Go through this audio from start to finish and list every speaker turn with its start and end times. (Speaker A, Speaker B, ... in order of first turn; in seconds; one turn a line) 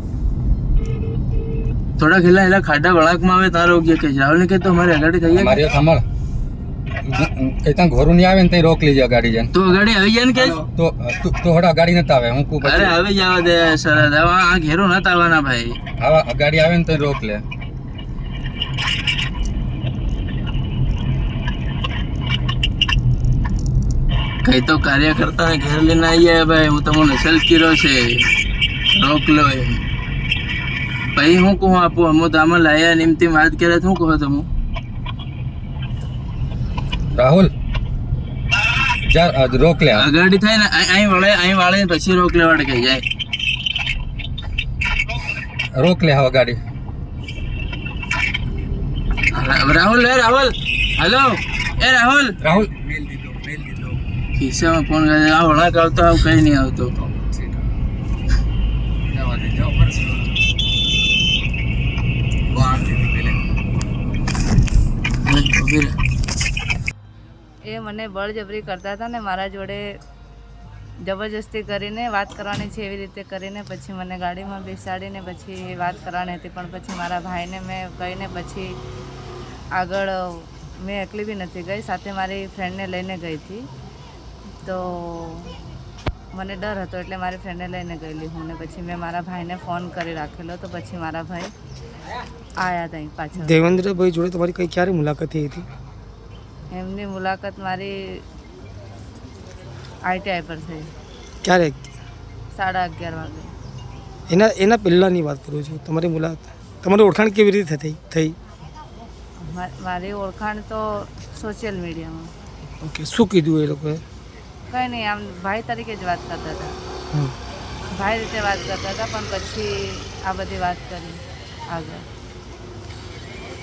Speaker A: 2.0-5.7
Speaker B: 5.3-6.0
Speaker B: 7.0-9.5
Speaker A: 9.5-10.6
Speaker C: 10.3-10.7
Speaker B: 10.8-13.0
Speaker A: 12.6-15.8
Speaker B: 16.0-17.4
Speaker A: 24.4-28.2
Speaker A: 28.9-29.8
Speaker A: 31.1-34.5
Speaker B: 37.1-37.5
Speaker B: 39.1-40.1
Speaker A: 39.9-43.0
Speaker B: 45.7-46.6
Speaker A: 49.3-52.4
Speaker B: 52.4-52.7
Speaker C: 52.5-54.0
Speaker A: 54.4-56.9
Speaker C: 57.0-57.7
Speaker C: 59.1-60.4
Speaker C: 62.5-63.4
Speaker A: 65.2-66.0
Speaker D: 67.6-69.9
Speaker D: 71.0-78.8
Speaker D: 79.8-83.7
Speaker D: 84.6-85.6
Speaker D: 86.3-91.5
Speaker D: 92.6-93.6
Speaker E: 93.4-95.7
Speaker D: 96.7-98.2
Speaker D: 100.0-100.9
Speaker E: 101.4-101.9
Speaker D: 102.5-103.5
Speaker E: 104.3-108.4
Speaker D: 109.4-112.3
Speaker E: 112.8-114.0
Speaker D: 114.7-116.7
Speaker D: 117.9-122.0